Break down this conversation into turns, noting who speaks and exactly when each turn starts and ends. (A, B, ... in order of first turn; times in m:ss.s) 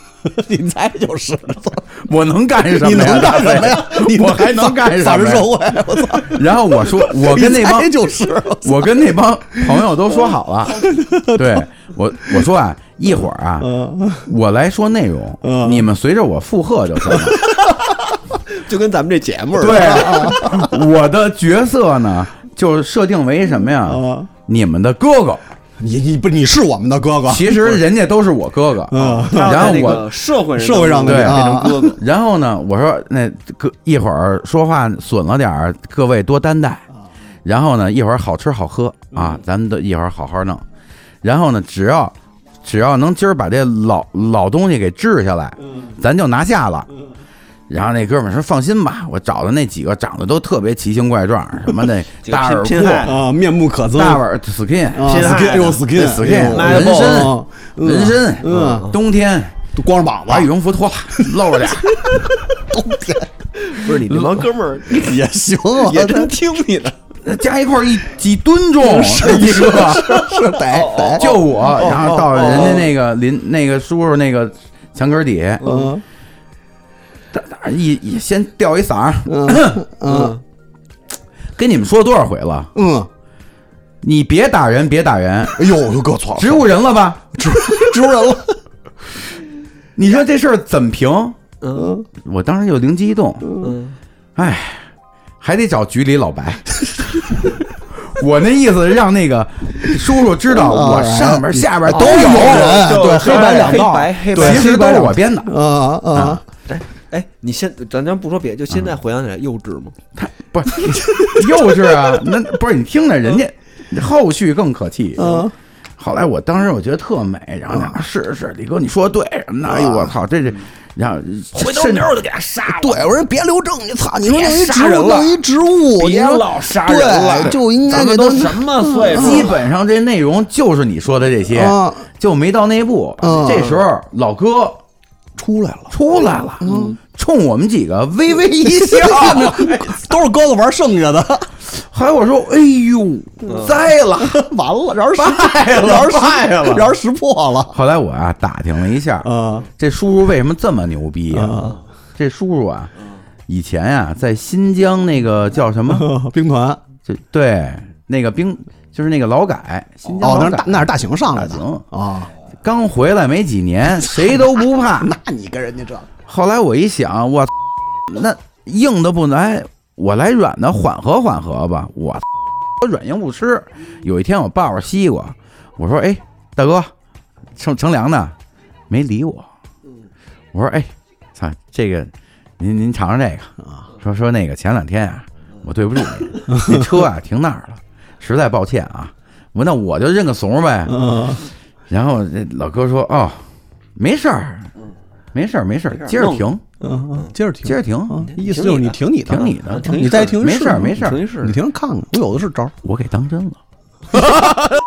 0:00.2-0:01.9 A
0:02.0-0:05.5 B
0:02.7-0:08.9 A
0:06.2-0:07.9 B
0:08.6-0:17.4 B
0:09.5-0:09.9 A
0:10.7-0:11.6 A
0:13.6-0:14.3 A
0:15.4-0:15.8 A
0:17.1-0:17.4 A
0:18.5-0:20.4 C
0:19.6-0:25.4 B
0:19.7-0:20.7 A
0:23.8-0:24.3 A
0:25.8-0:27.8 A
0:27.3-0:30.1 B
0:28.9-0:31.9 A
0:29.0-0:32.0 C
0:31.0-0:36.8 B
0:37.4-0:40.7 B
0:41.2-0:46.9 B
0:47.7-0:53.1 B
0:52.2-0:53.2 C
0:53.0-0:54.2 A
0:53.9-0:59.6 B
0:54.9-0:58.9 A
0:55.0-0:57.4 C
0:58.4-0:59.0 C
0:59.8-1:00.5 A
1:00.3-1:02.0 B
1:01.2-1:04.0 A
1:03.6-1:05.2 C
1:04.9-1:06.3 A
1:05.8-1:07.0 C
1:07.2-1:10.2 B
1:08.8-1:12.8 A
1:09.3-1:12.9 C
1:11.2-1:15.8 B
1:15.6-1:15.9 C
1:15.6-1:16.0 A
1:17.3-1:19.8 B
1:19.3-1:20.4 A
1:20.1-1:20.4 C
1:21.6-1:22.7 B
1:22.8-1:23.1 A
1:24.0-1:25.7 B
1:25.6-1:26.7 A
1:26.4-1:27.4 B
1:27.4-1:28.6 A
1:30.0-1:31.4 B
1:31.6-1:32.0 C
1:31.8-1:32.1 A
1:32.2-1:33.5 B
1:33.6-1:34.0 C
1:34.4-1:34.9 B
1:35.4-1:37.2 B
1:37.9-1:45.5 B
1:40.5-1:46.4 A
1:41.9-1:45.0 C
1:46.1-1:46.4 B
1:46.7-1:50.0 C
1:50.2-1:55.4 B
1:55.2-1:55.5 C
1:55.2-1:55.5 A
1:56.0-2:02.3 B
1:57.7-1:58.0 A
1:59.7-2:00.2 A
2:01.5-2:03.0 C
2:02.7-2:09.5 A
2:04.2-2:05.4 C
2:06.0-2:09.6 C
2:09.1-2:14.8 B
2:11.5-2:12.0 A
2:13.2-2:13.7 A
2:13.5-2:13.8 C
2:15.4-2:15.9 A
2:15.9-2:20.2 B
2:16.6-2:17.0 A
2:18.6-2:21.6 A
2:21.7-2:24.4 B
2:23.5-2:23.8 C
2:24.2-2:27.8 A
2:25.1-2:27.0 B
2:27.7-2:32.9 B
2:29.2-2:29.7 A
2:31.3-2:31.8 A
2:33.5-2:36.1 B
2:35.9-2:36.8 A
2:37.1-2:41.8 B
2:40.2-2:42.3 A
2:42.6-2:45.2 B
2:44.1-2:44.4 A
2:45.0-2:46.1 A
2:46.3-2:47.5 B
2:48.1-2:52.2 B
2:52.8-2:56.9 B
2:57.6-2:58.4 B
2:58.9-2:59.5 B
3:00.5-3:11.3 B
3:10.9-3:11.4 A
3:11.9-3:13.4 B
3:14.0-3:14.7 B
3:15.3-3:16.6 B
3:15.9-3:17.3 C
3:16.8-3:22.8 A
3:17.6-3:18.3 B
3:18.2-3:19.0 C
3:19.2-3:21.2 B
3:19.6-3:21.6 C
3:22.8-3:23.6 B
3:24.2-3:24.5 A